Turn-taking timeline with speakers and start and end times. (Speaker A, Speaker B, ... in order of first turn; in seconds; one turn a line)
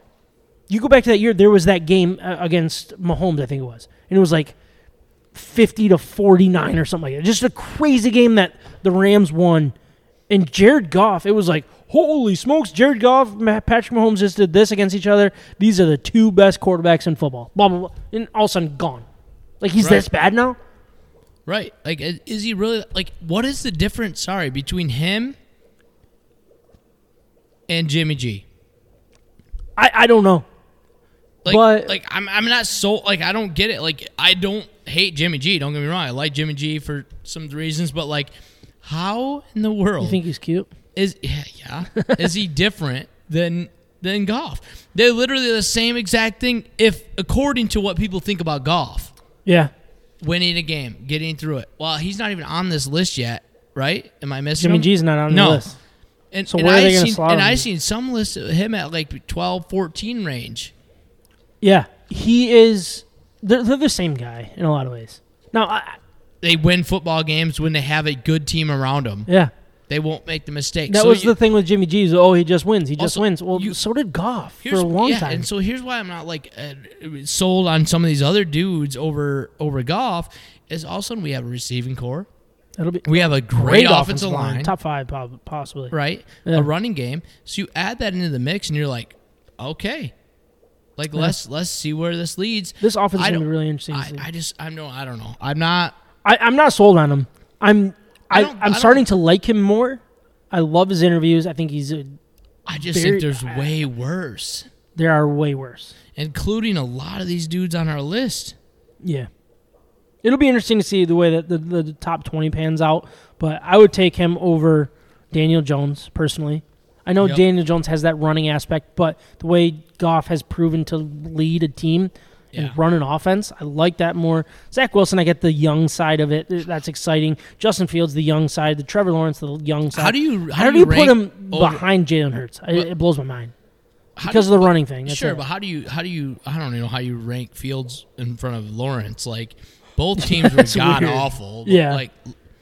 Speaker A: 0.7-4.5
Speaker A: 5.3-9.8
Speaker A: 10.3-19.1
Speaker A: 19.6-20.6
Speaker B: 21.5-25.4
Speaker B: 27.7-28.4
Speaker A: 29.8-30.5
Speaker B: 31.4-38.3
Speaker A: 31.5-31.9
Speaker B: 38.8-40.2
Speaker A: 40.0-40.7
Speaker B: 41.0-49.1
Speaker A: 42.0-42.3
Speaker A: 49.5-49.7
Speaker B: 50.2-55.7
Speaker A: 54.6-55.8
Speaker B: 56.3-60.7
Speaker A: 56.5-57.6
Speaker A: 61.6-66.0
Speaker B: 66.4-69.3
Speaker B: 69.9-71.3
Speaker A: 70.9-75.5
Speaker B: 73.0-73.8
Speaker B: 74.6-82.3
Speaker A: 82.8-85.9
Speaker B: 83.1-84.7
Speaker B: 85.9-90.1
Speaker B: 91.0-96.0
Speaker A: 92.8-94.2
Speaker A: 96.2-102.2
Speaker B: 98.3-99.0
Speaker B: 102.7-104.7
Speaker A: 102.8-103.7
Speaker A: 105.0-105.9
Speaker B: 106.2-108.5
Speaker A: 109.0-109.3
Speaker A: 110.2-133.5
Speaker B: 129.9-131.8
Speaker B: 134.2-142.2
Speaker A: 134.2-135.4
Speaker A: 140.2-142.0